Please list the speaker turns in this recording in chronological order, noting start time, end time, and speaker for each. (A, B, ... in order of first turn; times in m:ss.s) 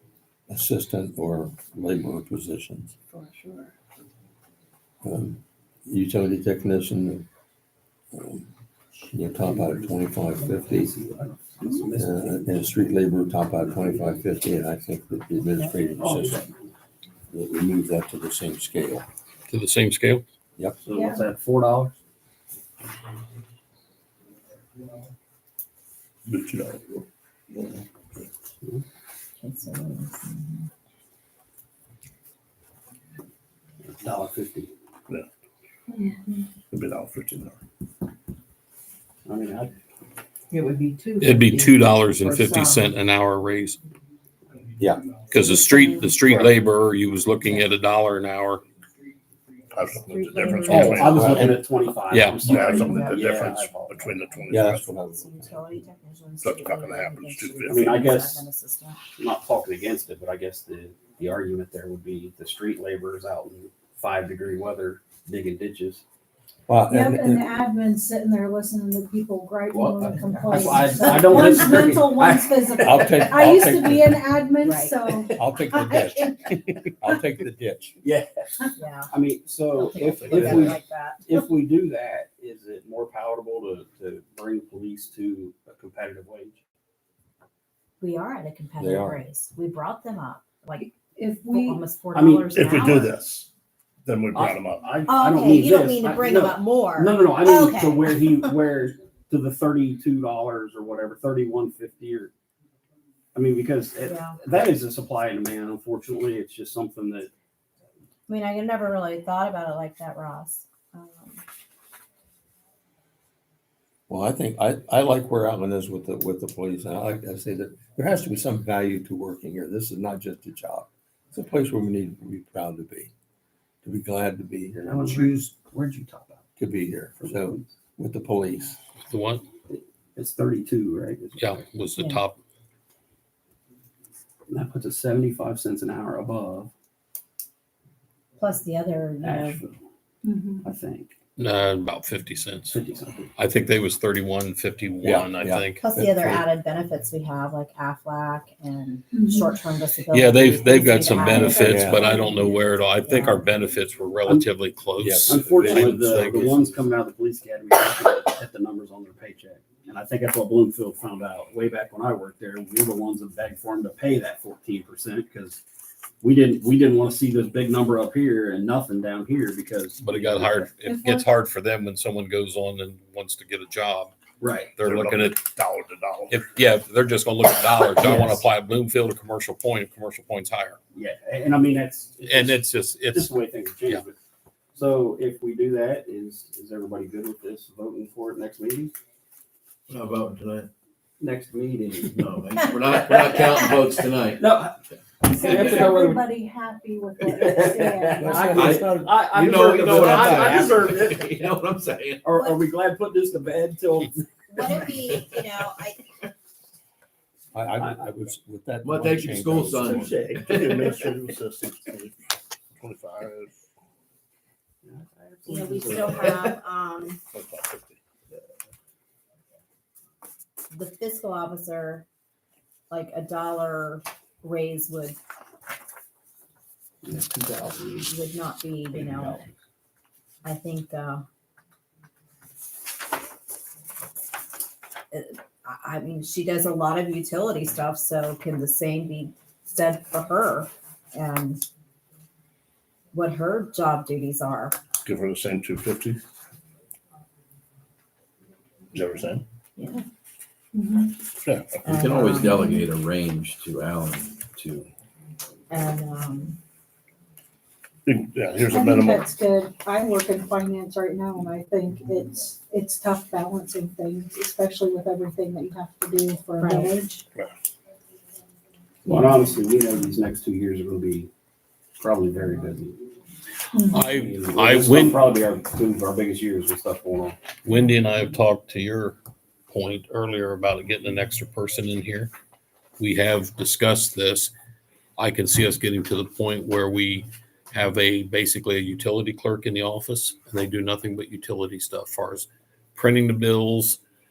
0:00.5-0:03.0 A
0:03.1-0:03.7 B
0:05.0-0:07.3 A
0:08.1-0:08.5 A
0:09.1-0:10.9 A
0:09.3-0:12.8 C
0:11.9-0:16.5 A
0:13.6-0:14.2 C
0:16.0-0:16.5 C
0:17.3-0:19.0 A
0:19.5-0:20.2 D
0:20.8-0:21.9 C
0:20.9-0:21.2 E
0:26.2-0:27.0 F
0:29.4-0:30.7 G
0:33.9-0:34.7 C
0:35.9-0:36.4 E
0:36.7-0:37.6 F
0:39.2-0:39.7 C
0:40.5-0:42.9 B
0:41.2-0:43.8 D
0:45.3-0:48.6 D
0:45.6-0:46.1 G
0:46.2-0:46.5 F
0:49.7-0:51.6 F
0:49.9-0:51.4 G
0:50.7-0:54.2 C
0:51.2-0:51.5 A
0:52.1-0:52.5 D
0:52.4-0:54.9 F
0:52.8-0:53.2 G
0:54.5-0:55.8 A
0:55.1-0:59.0 G
0:56.4-0:58.0 F
0:57.7-0:58.4 C
0:59.2-1:06.0 C
1:06.7-1:07.5 A
1:06.9-1:15.3 E
1:09.7-1:13.3 C
1:09.8-1:10.6 H
1:12.8-1:14.2 A
1:14.6-1:16.5 G
1:15.3-1:18.0 A
1:18.0-1:26.6 C
1:18.8-1:19.1 G
1:19.7-1:21.2 G
1:20.1-1:20.7 F
1:28.0-1:30.9 G
1:28.8-1:29.2 A
1:30.8-1:31.8 E
1:31.5-1:33.2 G
1:32.1-1:32.5 C
1:32.5-1:33.5 F
1:34.0-1:34.9 F
1:34.3-1:42.3 C
1:35.1-1:38.5 G
1:43.3-1:47.3 C
1:44.0-1:44.4 G
1:48.3-1:51.4 G
1:54.1-2:03.1 A
2:03.8-2:05.3 A
2:04.7-2:06.4 C
2:06.6-2:08.8 A
2:07.2-2:07.7 C
2:09.1-2:09.4 D
2:09.7-2:11.6 C
2:11.4-2:12.4 D
2:12.0-2:12.2 G
2:14.5-2:16.7 C
2:18.4-2:19.6 G
2:19.2-2:19.8 C
2:20.2-2:20.6 E
2:20.6-2:21.1 C
2:21.4-2:22.8 D
2:22.7-2:23.3 C
2:23.4-2:25.8 D
2:25.0-2:26.4 A
2:25.8-2:33.4 G
2:29.1-2:29.6 E
2:30.1-2:36.7 D
2:30.6-2:32.6 E
2:31.6-2:32.0 A
2:35.0-2:36.4 A
2:35.3-2:45.6 C
2:46.2-2:50.7 C
2:50.0-2:54.1 D
2:54.4-2:54.8 C
2:54.8-2:55.5 D
2:54.8-2:56.4 F
2:56.3-3:00.8 D
2:57.9-2:58.5 C
3:00.9-3:04.1 C
3:02.2-3:03.3 D
3:04.7-3:08.9 C
3:09.9-3:10.7 H
3:11.2-3:16.2 C
3:12.1-3:14.4 H
3:15.2-3:18.5 E
3:17.2-3:21.6 C
3:18.2-3:19.1 A
3:18.5-3:22.3 H
3:19.8-3:20.4 A
3:22.2-3:25.2 C
3:24.5-3:26.0 G
3:27.5-3:30.2 A
3:28.8-3:30.8 H
3:29.8-3:30.9 C
3:30.5-3:32.1 F
3:32.8-3:33.5 F
3:34.8-3:36.5 C
3:35.5-3:37.2 G
3:36.1-3:36.5 H
3:37.3-3:38.0 F
3:40.7-3:42.0 G
3:42.9-3:45.2 G
3:47.0-3:48.1 C
3:48.0-3:49.4 G
3:48.9-3:49.4 C
3:50.4-3:51.2 G
3:55.1-4:01.6 G
4:03.1-4:04.8 G
4:05.0-4:06.2 F
4:08.9-4:09.4 F
4:09.8-4:10.0 G
4:10.7-4:11.1 E
4:11.4-4:12.0 F
4:11.8-4:14.9 H
4:11.8-4:12.7 G
4:12.4-4:12.9 E
4:15.7-4:16.6 G
4:18.0-4:19.3 F
4:18.5-4:27.2 E
4:26.6-4:27.0 G
4:29.0-4:31.3 C
4:32.0-4:33.0 C
4:33.7-4:34.1 E
4:33.8-4:35.3 D
4:34.1-4:37.4 C
4:37.6-4:39.2 D
4:39.7-4:42.3 D
4:43.0-4:44.5 D
4:45.2-4:54.0 D